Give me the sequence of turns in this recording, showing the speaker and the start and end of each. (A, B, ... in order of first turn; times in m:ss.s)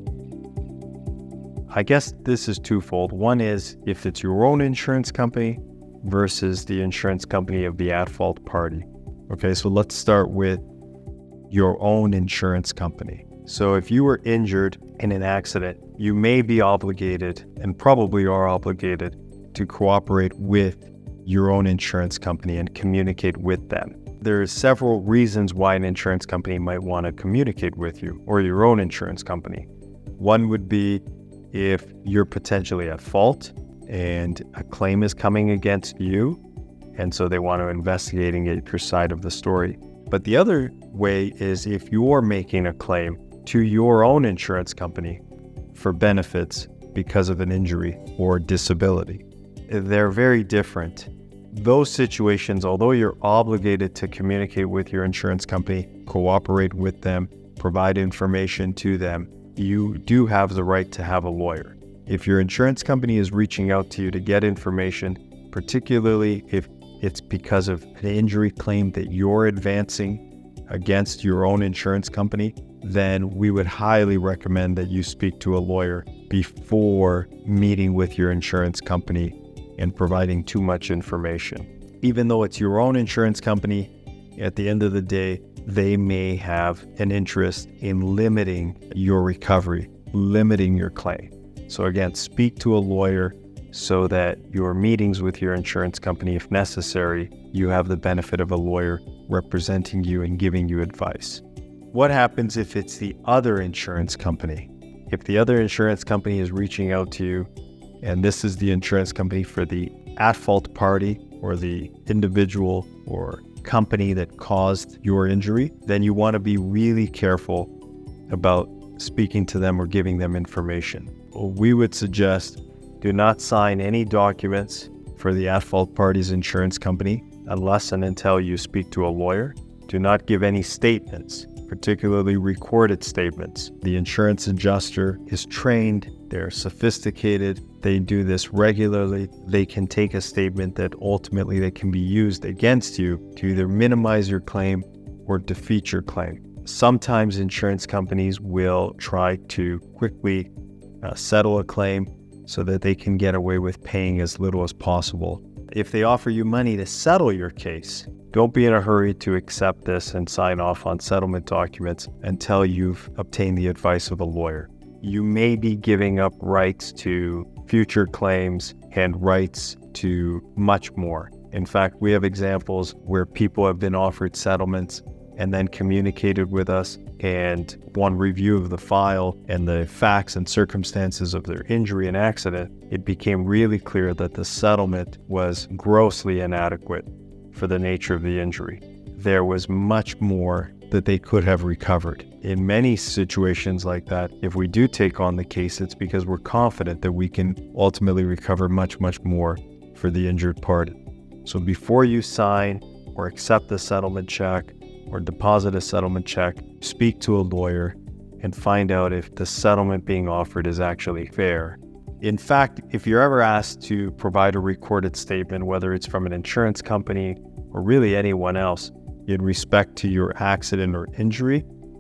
0:01.7-0:10.6 A
0:11.5-0:29.7 A
0:30.2-0:36.4 A
0:37.0-0:45.2 A
0:45.7-1:41.4 A
1:41.9-1:47.5 A
1:48.0-1:57.7 A
1:58.3-2:30.5 A
2:31.0-3:41.6 A